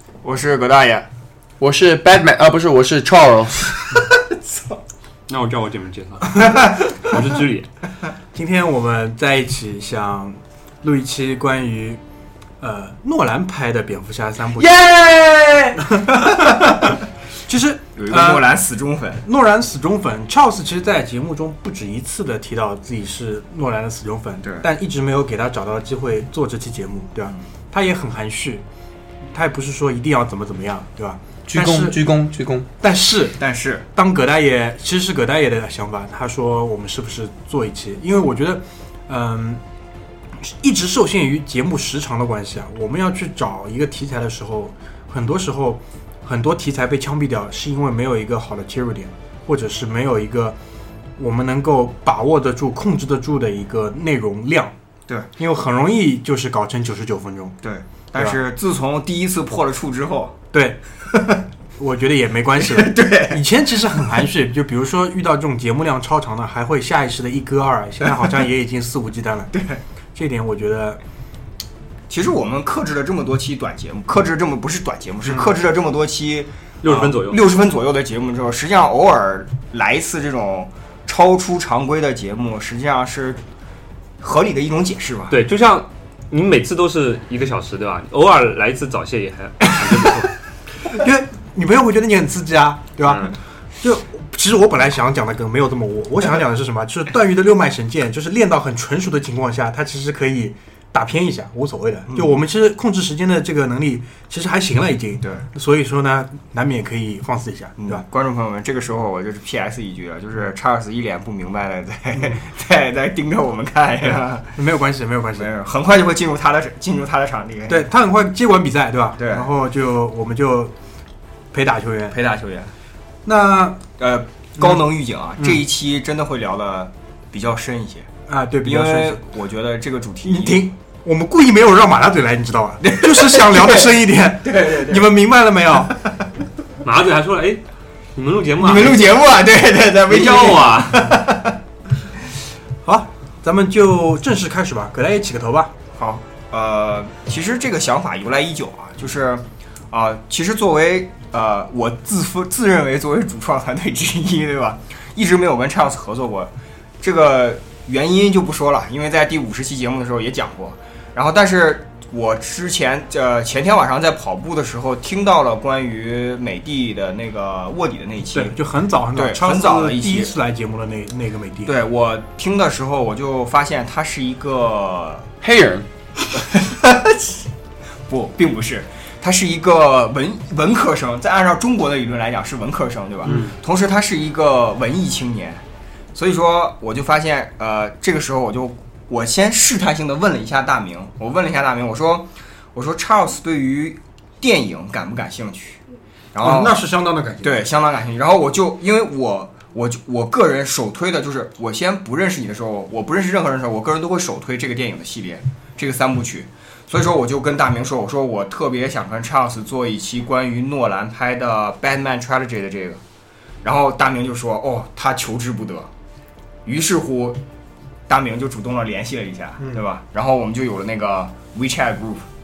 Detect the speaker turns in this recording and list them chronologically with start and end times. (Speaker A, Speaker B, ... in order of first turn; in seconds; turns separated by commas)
Speaker A: 0.2-1.1, Speaker B: 1.6-3.8, Speaker A: 4.2-4.7, Speaker C: 5.3-7.7, Speaker D: 8.3-12.0, Speaker D: 12.6-14.7, Speaker B: 14.6-15.8, Speaker D: 15.8-18.4, Speaker A: 16.1-16.8, Speaker A: 17.9-19.2, Speaker D: 19.2-28.6, Speaker A: 24.4-24.7, Speaker D: 29.3-32.0, Speaker B: 31.5-32.7, Speaker D: 32.8-33.4, Speaker A: 33.4-33.8, Speaker D: 33.9-39.6, Speaker D: 40.4-50.5, Speaker D: 51.2-54.7, Speaker D: 55.4-57.6, Speaker A: 57.6-60.4, Speaker D: 60.5-60.8, Speaker A: 61.1-61.4, Speaker D: 61.8-69.5, Speaker A: 62.6-63.4, Speaker A: 69.5-69.8, Speaker D: 70.1-71.0, Speaker A: 72.1-83.4, Speaker C: 76.8-77.4, Speaker A: 84.2-85.4, Speaker C: 85.3-90.3, Speaker D: 90.9-108.0, Speaker A: 107.8-114.5, Speaker D: 114.1-115.5, Speaker A: 115.3-117.9, Speaker D: 117.7-120.7, Speaker A: 119.2-119.5, Speaker D: 121.5-122.2, Speaker A: 122.1-122.7, Speaker D: 123.2-123.8, Speaker A: 124.0-128.1, Speaker D: 128.3-129.2, Speaker A: 128.6-130.6, Speaker D: 130.2-136.0, Speaker A: 132.8-133.9, Speaker A: 134.4-135.1, Speaker A: 135.9-136.2, Speaker C: 136.8-139.2, Speaker A: 138.6-141.6, Speaker C: 140.1-141.2, Speaker D: 142.8-145.7, Speaker A: 145.9-168.6, Speaker D: 168.3-171.7, Speaker A: 169.1-170.3, Speaker A: 171.6-175.3, Speaker B: 175.4-175.9, Speaker A: 176.3-177.4, Speaker A: 178.1-185.6, Speaker D: 183.2-183.5, Speaker A: 186.1-195.8, Speaker A: 196.3-196.8, Speaker D: 196.4-197.7, Speaker A: 197.4-213.0, Speaker A: 213.6-215.9, Speaker A: 216.7-217.4, Speaker A: 218.1-222.2